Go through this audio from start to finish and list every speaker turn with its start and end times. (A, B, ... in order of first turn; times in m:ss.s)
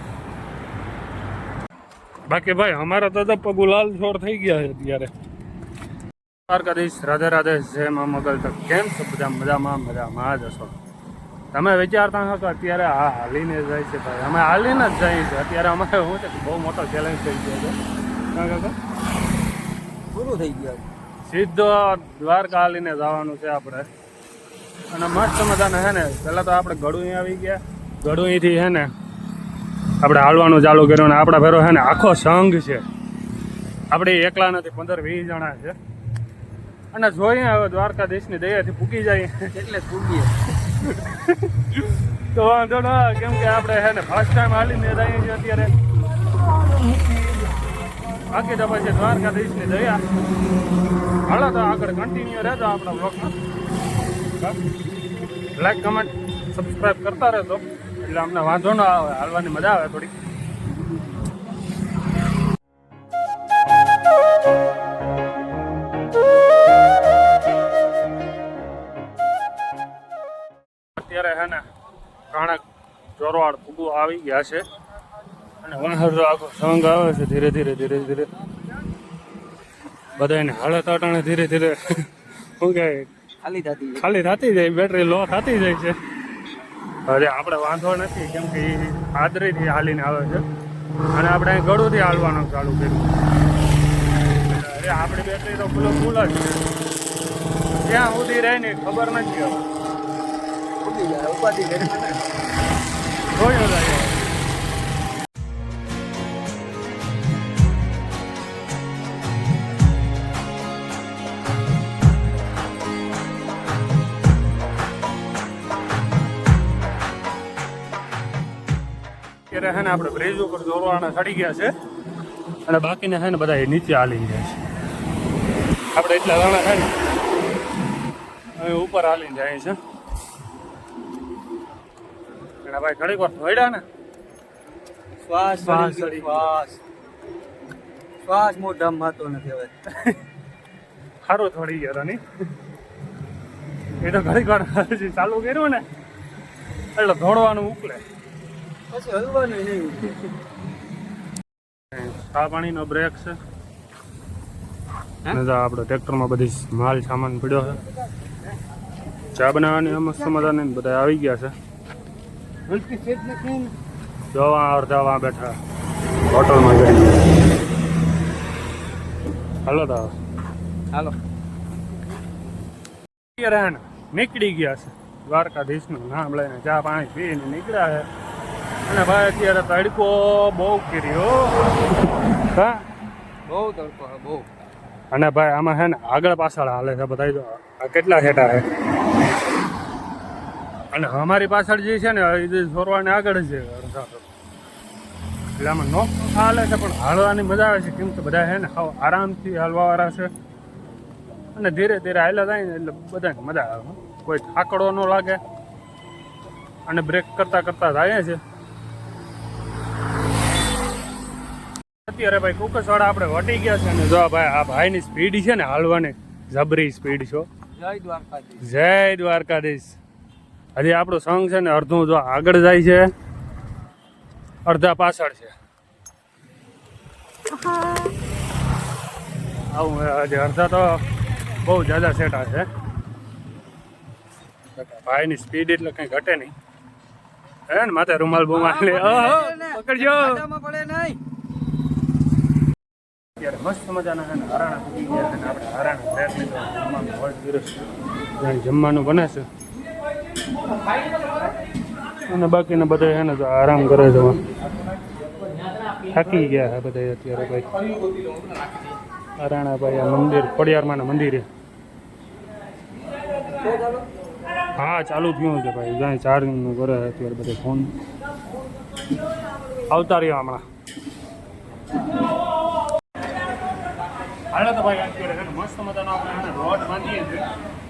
0:02.3-0:05.1 A
0:06.5-0:10.7 A
0:11.5-0:17.8 A
0:18.3-0:18.7 A
0:20.1-0:20.8 B
0:21.2-0:23.9 A
0:24.9-0:28.9 A
0:30.0-0:32.9 A
0:33.9-0:35.8 A
0:36.9-0:39.5 A
0:39.5-0:40.3 B
0:40.8-0:45.7 A
0:48.3-0:50.0 A
0:51.3-0:53.3 A
0:55.6-1:00.1 A
1:11.0-1:11.6 A
1:12.3-1:12.6 A
1:13.2-1:14.6 A
1:15.6-1:18.3 A
1:20.2-1:23.1 A
1:23.4-1:24.0 B
1:24.0-1:26.0 A
1:27.1-1:30.4 A
1:31.1-1:33.2 A
1:34.3-1:36.6 A
1:37.8-1:39.6 A
1:40.8-1:42.2 B
1:43.3-1:44.2 A
1:59.5-2:01.7 A
2:02.6-2:04.6 A
2:05.9-2:06.9 A
2:08.6-2:09.8 A
2:12.6-2:13.8 A
2:15.2-2:16.8 B
2:15.6-2:16.5 A
2:18.2-2:19.7 B
2:21.2-2:22.2 A
2:24.0-2:25.8 A
2:26.9-2:28.0 A
2:28.9-2:30.3 B
2:31.9-2:33.4 A
2:35.3-2:37.8 A
2:39.3-2:41.5 A
2:42.8-2:43.6 B
2:44.3-2:45.6 A
2:46.3-2:47.3 A
2:49.6-2:50.1 A
2:53.4-2:58.1 A
2:58.9-3:01.7 A
3:02.5-3:02.8 A
3:03.5-3:04.5 B
3:05.1-3:08.7 A
3:10.9-3:14.3 A
3:15.6-3:20.3 A
3:21.5-3:25.4 A
3:26.9-3:28.4 A
3:32.0-3:37.5 A
3:37.8-3:38.6 B
3:38.6-3:40.0 A
3:40.7-3:43.1 A
3:44.6-3:45.5 A
3:49.7-3:51.0 A
3:51.6-3:52.7 A
3:54.8-3:56.5 A
3:57.7-4:00.4 A
3:58.5-4:01.2 B
4:03.4-4:07.8 A
4:08.4-4:09.4 A
4:12.3-4:14.4 A
4:16.1-4:17.7 A
4:19.4-4:21.5 A
4:23.6-4:24.0 B
4:24.8-4:28.0 A
4:29.9-4:30.6 A
4:34.5-4:37.5 A